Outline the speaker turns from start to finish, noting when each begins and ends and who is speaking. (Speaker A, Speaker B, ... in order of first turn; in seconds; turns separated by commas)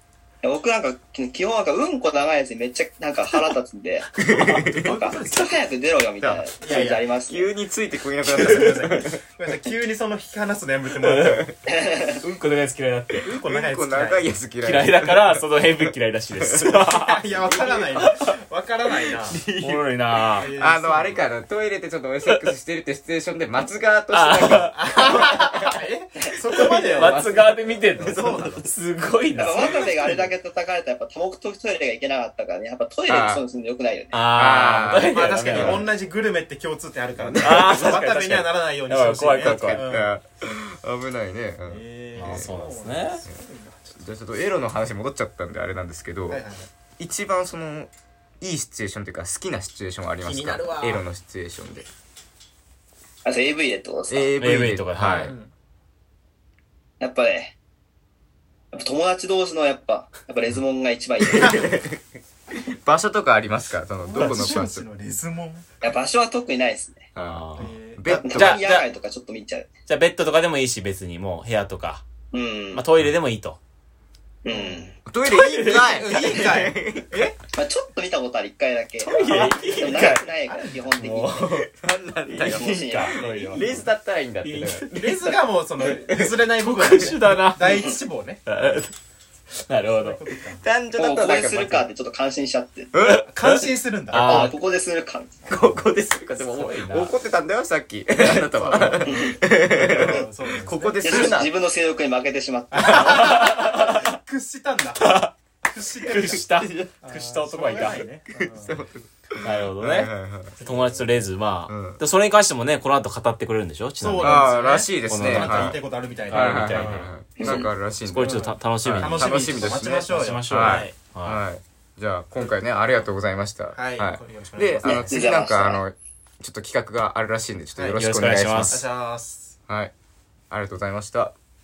Speaker A: 0.4-7.5, Speaker B: 4.2-5.0, Speaker C: 4.4-5.6, Speaker B: 6.2-6.5, Speaker C: 6.6-7.1, Speaker B: 7.3-9.2, Speaker C: 8.2-11.5, Speaker D: 11.0-11.4, Speaker B: 11.2-11.5, Speaker A: 11.7-12.2, Speaker D: 12.1-13.3, Speaker C: 13.2-14.3, Speaker B: 13.3-15.5, Speaker D: 14.6-18.2, Speaker B: 16.4-16.7, Speaker C: 16.6-19.4, Speaker B: 17.4-18.2, Speaker B: 18.9-25.8, Speaker D: 19.6-20.5, Speaker C: 20.4-21.3, Speaker D: 22.2-22.5, Speaker D: 24.1-24.8, Speaker C: 24.7-27.2, Speaker B: 26.4-28.7, Speaker D: 26.9-29.7, Speaker C: 28.0-28.6, Speaker A: 29.4-34.2, Speaker C: 29.4-30.3, Speaker B: 29.5-29.9, Speaker B: 33.1-33.4, Speaker D: 34.1-35.9, Speaker B: 34.3-35.9, Speaker C: 35.1-40.2, Speaker B: 37.2-37.5, Speaker D: 37.4-39.9, Speaker B: 39.4-42.6, Speaker C: 41.6-44.1, Speaker D: 42.1-43.2, Speaker B: 44.0-46.4, Speaker C: 46.3-46.7, Speaker B: 47.0-51.9, Speaker C: 50.2-51.1, Speaker A: 53.2-54.3, Speaker B: 54.1-55.3, Speaker D: 54.4-55.3, Speaker C: 55.2-55.5, Speaker A: 57.0-57.5, Speaker A: 58.7-61.8, Speaker B: 61.3-62.0, Speaker C: 61.3-61.7, Speaker B: 62.5-64.9, Speaker C: 64.0-65.7, Speaker A: 65.8-67.1, Speaker B: 67.2-68.6, Speaker D: 67.2-67.7, Speaker C: 67.6-68.3, Speaker A: 68.2-69.7, Speaker D: 68.3-68.9, Speaker D: 69.9-72.0, Speaker A: 72.3-72.9, Speaker D: 72.7-73.6, Speaker A: 74.4-75.0, Speaker C: 74.5-74.9, Speaker B: 75.1-77.2, Speaker D: 75.2-76.7, Speaker C: 75.8-77.4, Speaker A: 77.5-81.6, Speaker D: 79.0-80.3, Speaker C: 79.2-81.2, Speaker D: 81.0-81.7, Speaker B: 81.6-84.9, Speaker D: 82.3-83.9, Speaker A: 82.4-83.5, Speaker C: 83.4-83.9, Speaker D: 84.4-87.9, Speaker C: 84.9-88.4, Speaker B: 86.0-86.3, Speaker A: 87.7-87.9, Speaker D: 88.5-88.9, Speaker D: 89.7-90.2, Speaker C: 89.8-90.7, Speaker B: 90.4-91.9, Speaker A: 91.0-92.9, Speaker B: 92.9-93.3, Speaker D: 93.0-94.5, Speaker C: 93.3-94.5, Speaker A: 94.1-95.7, Speaker B: 95.5-101.5, Speaker D: 96.3-97.2, Speaker C: 98.2-101.4, Speaker A: 99.1-99.4, Speaker A: 101.0-103.4, Speaker C: 102.7-106.5, Speaker D: 102.9-104.1, Speaker D: 105.0-105.3, Speaker D: 106.1-108.1, Speaker B: 106.1-107.0, Speaker C: 107.0-108.8, Speaker B: 108.4-110.6, Speaker D: 109.4-114.5, Speaker C: 110.6-111.2, Speaker B: 111.7-112.0, Speaker C: 114.0-117.1, Speaker B: 114.1-128.8, Speaker D: 115.1-121.4, Speaker A: 117.4-117.7, Speaker C: 118.2-120.9, Speaker C: 123.7-125.2, Speaker A: 124.8-125.8, Speaker D: 128.0-128.8, Speaker C: 128.7-129.6, Speaker B: 129.7-129.9, Speaker B: 130.5-131.3